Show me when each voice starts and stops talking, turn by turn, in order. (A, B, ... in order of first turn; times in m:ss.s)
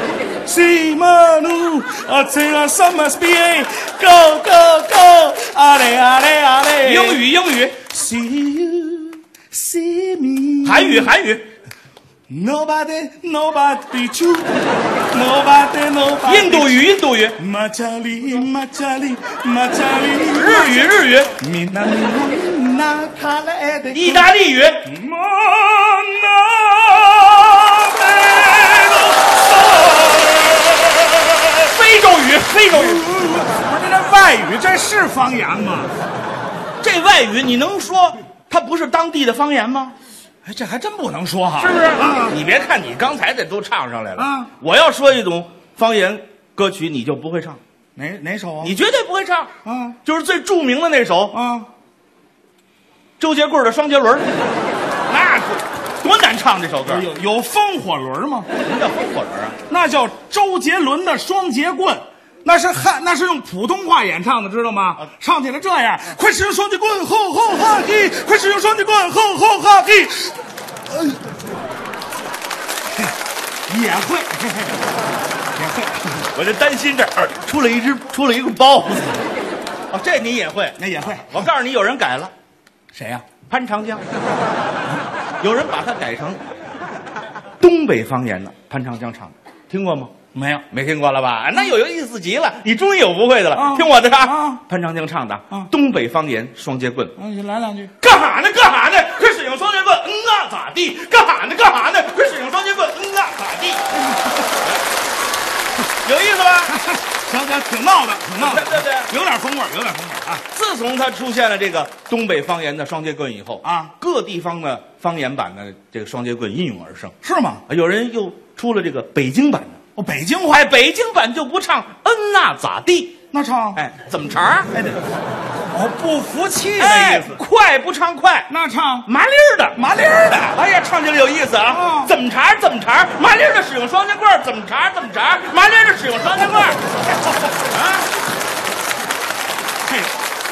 0:00.4-0:07.3 A
0:06.8-0:07.8 B
0:07.8-0:11.1 A
0:10.6-0:11.5 B
0:12.3-0:14.5 A
0:15.1-0:24.3 A
0:16.2-0:17.4 B
0:20.3-0:21.3 B
0:23.9-0:24.9 B
0:24.8-0:31.8 A
0:31.6-0:33.1 B
0:32.7-0:35.9 A
0:36.8-0:39.9 B
0:40.4-0:42.4 A
0:41.6-0:47.6 B
0:44.2-0:44.5 A
0:48.0-0:48.7 A
0:48.6-0:51.4 B
0:49.6-0:50.0 A
0:51.3-0:51.7 A
0:53.2-0:54.3 B
0:55.1-0:57.1 B
0:56.8-0:58.5 A
0:58.6-0:59.6 B
0:59.7-1:10.4 A
1:10.9-1:11.2 A
1:13.7-1:14.8 A
1:15.6-1:16.3 A
1:16.3-1:19.2 B
1:19.9-1:22.3 B
1:20.8-1:21.4 A
1:22.9-1:23.2 A
1:23.4-1:24.0 B
1:25.4-1:26.4 B
1:27.6-1:30.1 B
1:30.3-1:30.6 A
1:30.7-1:37.1 B
1:33.5-1:34.6 A
1:37.2-1:37.9 A
1:38.0-1:43.8 B
1:44.1-1:44.4 A
1:46.0-1:46.8 B
1:46.7-1:50.4 A
1:48.4-1:49.1 B
1:50.5-1:57.1 B
1:53.6-1:53.9 A
1:57.2-1:57.6 A
1:57.7-1:59.8 B
2:00.0-2:00.6 A
2:00.5-2:03.2 B
2:03.3-2:03.8 A
2:03.7-2:04.7 B
2:04.7-2:05.0 A
2:05.7-2:07.4 A
2:06.8-2:08.5 B
2:08.5-2:09.1 A
2:09.0-2:09.8 B
2:09.7-2:10.6 A
2:10.5-2:16.8 B
2:11.7-2:12.1 A
2:17.6-2:18.1 B
2:19.8-2:20.1 A